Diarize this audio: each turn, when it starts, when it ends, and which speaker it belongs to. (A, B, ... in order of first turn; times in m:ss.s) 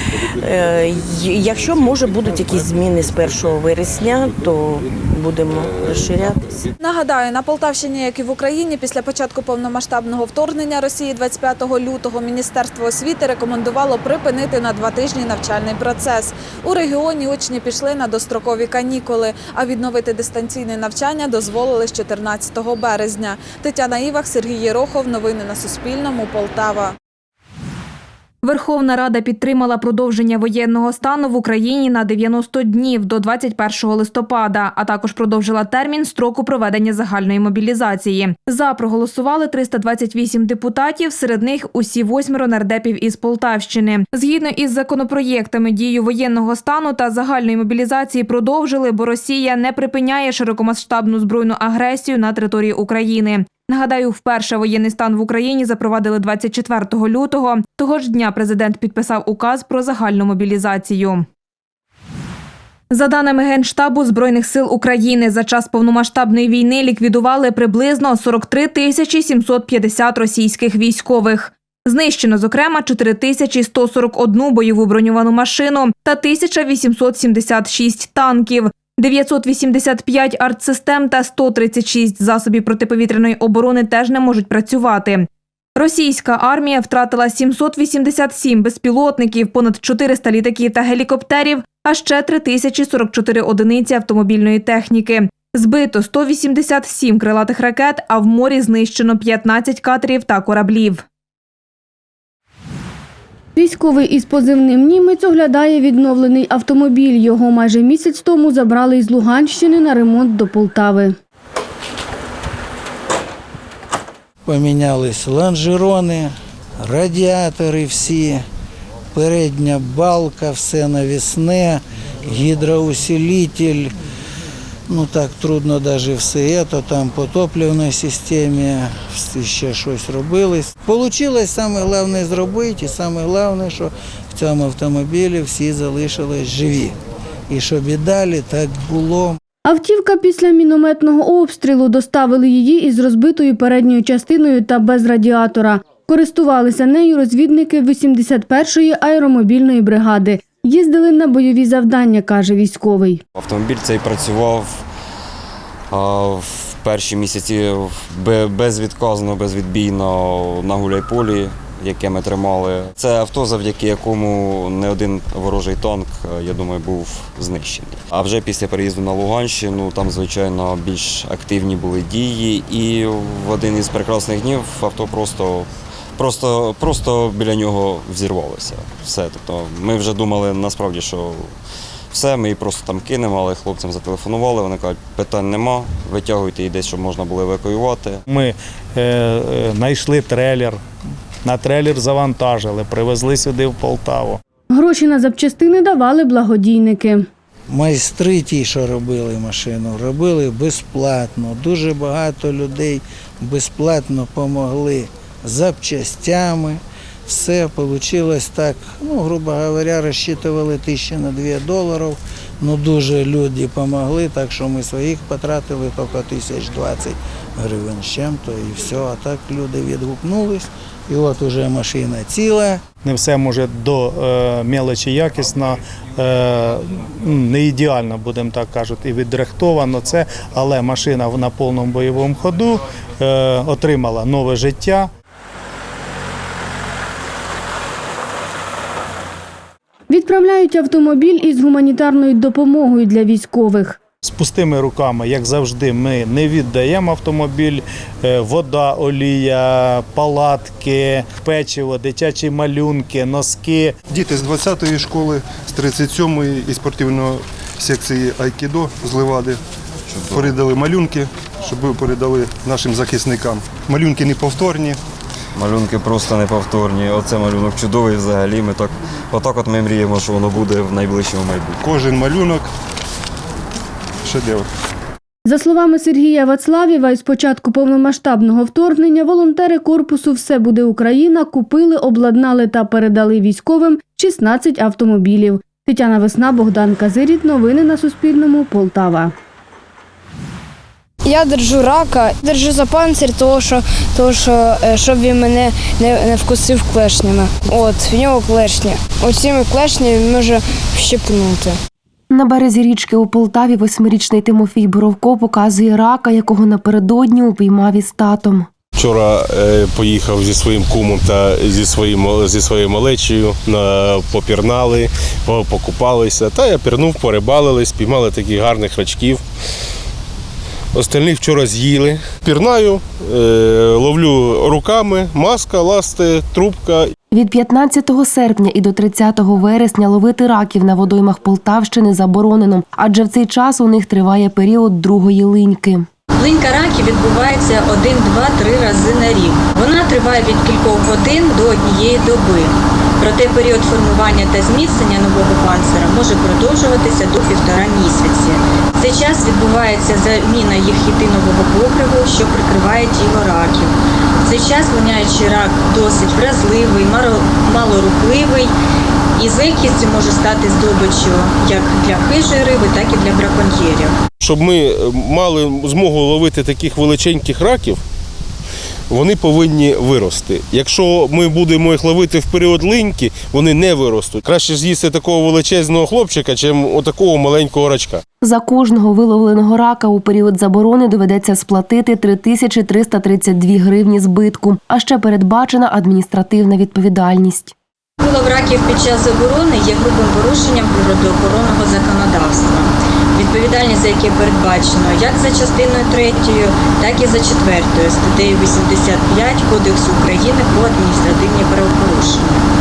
0:00.4-0:06.6 A
0:06.8-0:26.9 B
0:28.4-1:01.3 C
1:02.9-1:41.0 C
1:43.6-1:51.2 D
1:54.4-1:56.3 E
1:56.8-1:58.4 E
1:59.1-2:03.9 E
2:04.9-2:16.9 E
2:17.5-2:19.3 E
2:19.6-2:33.2 D
2:33.4-2:34.8 F
2:35.9-3:01.5 F
3:02.1-3:08.2 F
3:08.3-3:10.8 G
3:11.4-3:14.4 G
3:14.7-3:17.3 D
3:17.7-3:42.8 E
3:43.0-3:55.1 G
4:00.1-4:04.0 D
4:04.2-4:13.9 G
4:14.1-4:19.6 H
4:20.1-4:20.4 F
4:20.4-4:25.0 H
4:25.6-4:31.8 F
4:31.9-4:32.6 H
4:34.3-4:34.6 H
4:35.4-4:49.3 D
4:51.2-5:01.8 I
5:02.3-5:08.7 J
5:09.0-5:19.4 K
5:20.9-5:27.1 K
5:27.3-5:36.1 J
5:36.4-5:53.9 L
5:54.5-5:58.7 L
5:59.4-6:04.1 L
6:04.4-6:08.0 K
6:09.1-6:18.2 K
6:18.4-6:27.7 J
6:28.2-6:42.6 L